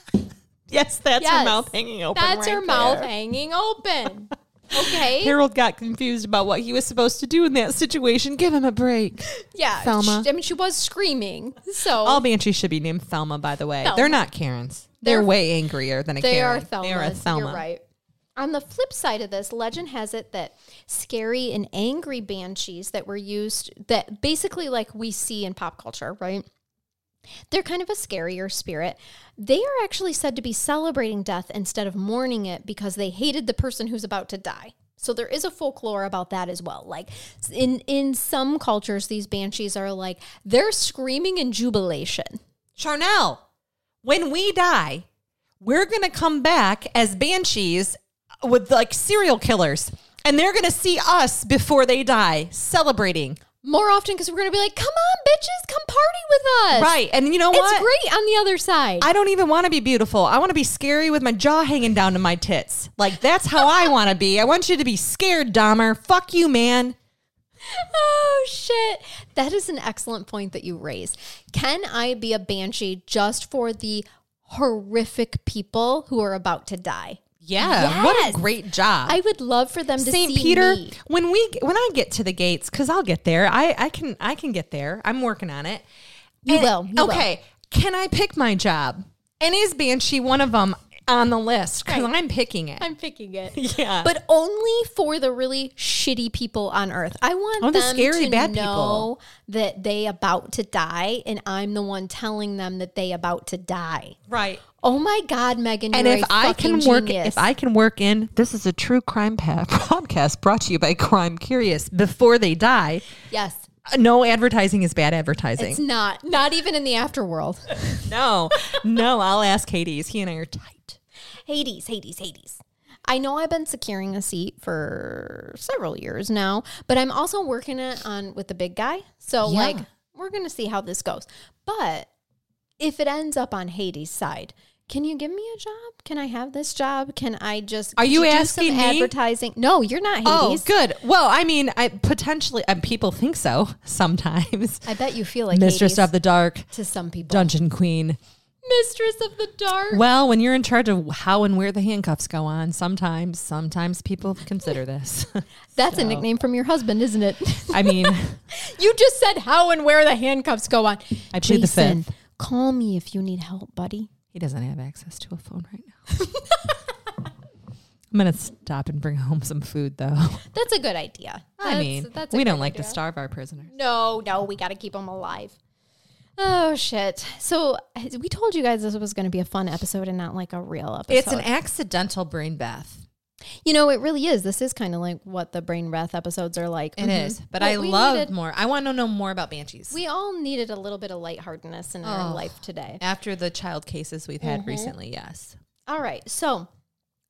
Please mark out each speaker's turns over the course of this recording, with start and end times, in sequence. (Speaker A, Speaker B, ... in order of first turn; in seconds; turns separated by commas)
Speaker A: 0.7-3.1, Speaker B: 1.2-5.4, Speaker A: 4.8-10.3, Speaker B: 9.3-12.2, Speaker A: 12.0-17.6, Speaker B: 13.8-14.2, Speaker B: 15.0-15.3, Speaker B: 16.2-17.8, Speaker B: 18.4-26.4, Speaker B: 27.5-42.4, Speaker A: 42.8-43.4, Speaker A: 44.0-45.0, Speaker A: 45.6-53.4, Speaker B: 53.6-56.9, Speaker A: 56.7-57.9, Speaker B: 57.5-59.1, Speaker A: 59.0-67.0, Speaker B: 63.6-63.9, Speaker B: 67.6-78.4, Speaker A: 77.4-79.2, Speaker B: 79.0-81.0, Speaker A: 80.0-85.8, Speaker B: 86.5-87.3, Speaker A: 86.5-92.9, Speaker B: 91.8-92.1, Speaker B: 92.8-104.2, Speaker A: 93.5-94.1, Speaker A: 97.6-99.1, Speaker A: 104.3-104.6, Speaker B: 104.8-107.5, Speaker A: 105.9-113.0, Speaker B: 113.3-113.6, Speaker A: 113.9-115.8, Speaker B: 115.6-118.0, Speaker A: 118.0-121.0, Speaker B: 121.5-132.1, Speaker A: 129.4-129.8, Speaker B: 132.8-140.7, Speaker A: 138.0-139.1, Speaker A: 140.2-144.9, Speaker B: 144.8-146.1, Speaker A: 145.5-146.7, Speaker B: 146.7-147.5, Speaker A: 147.3-148.2, Speaker B: 148.6-150.0, Speaker A: 149.9-156.2, Speaker B: 155.8-164.1, Speaker A: 157.7-158.4, Speaker A: 161.3-162.1, Speaker A: 164.3-166.0, Speaker B: 166.2-166.8, Speaker A: 168.1-170.4, Speaker B: 170.5-173.0, Speaker A: 171.6-173.7, Speaker B: 173.7-175.6, Speaker B: 176.4-181.5, Speaker A: 181.1-183.0, Speaker B: 183.6-188.3, Speaker A: 187.0-190.0, Speaker B: 189.9-193.0, Speaker A: 192.0-195.6, Speaker B: 194.4-194.9, Speaker B: 195.9-196.7